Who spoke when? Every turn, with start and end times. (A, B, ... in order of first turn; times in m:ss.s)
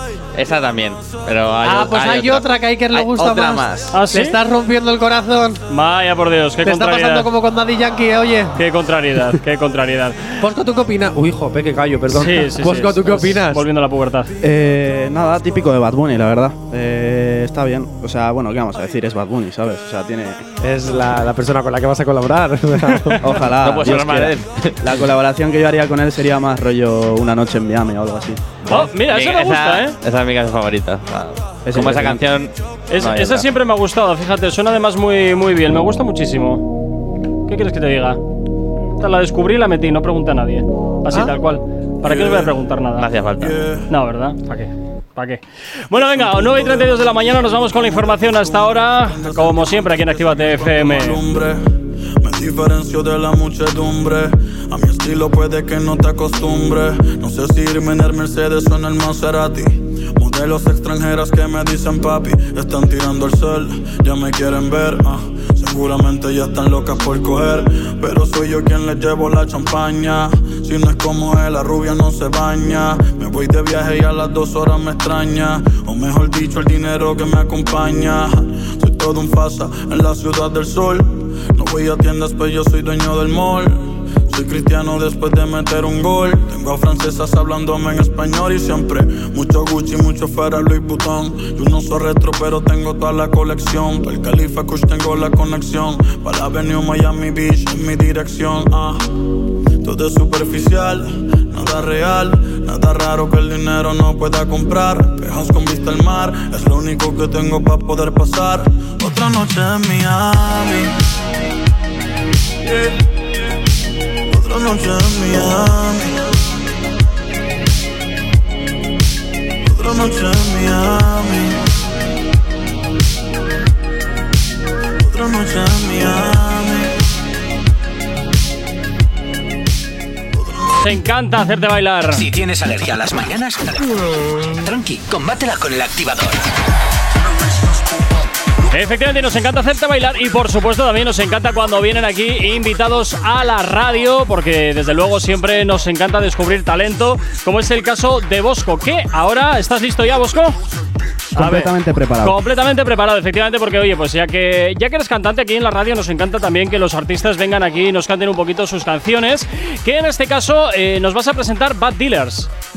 0:00.4-0:04.0 A
0:01.6-0:05.6 B
0:03.9-0:04.4 C
0:05.7-0:07.3 C
0:06.6-0:08.6 B
0:08.6-0:10.4 C
0:10.4-0:13.6 B
0:12.1-0:14.3 C
0:14.4-0:20.4 D
0:20.6-0:23.3 B
0:22.9-0:23.2 C
0:23.2-0:28.8 D
0:23.6-0:25.0 A
0:28.7-0:30.0 C
0:28.7-0:33.5 A
0:31.6-0:32.3 D
0:32.9-0:36.7 C
0:37.5-0:38.2 C
0:39.0-0:43.1 C
0:42.0-0:42.5 E
0:43.0-0:43.6 A
0:43.4-0:43.9 E
0:43.9-0:51.2 C
0:45.9-0:51.6 E
0:52.2-1:39.1 E
1:39.8-1:51.0 E
1:52.6-1:53.0 E
1:54.3-1:56.3 E
1:59.6-2:01.6 E
2:05.0-2:06.9 E
2:10.8-2:12.2 C
2:12.1-2:16.4 F
2:18.7-2:30.6 C
2:31.4-2:32.4 D
2:31.4-2:42.5 C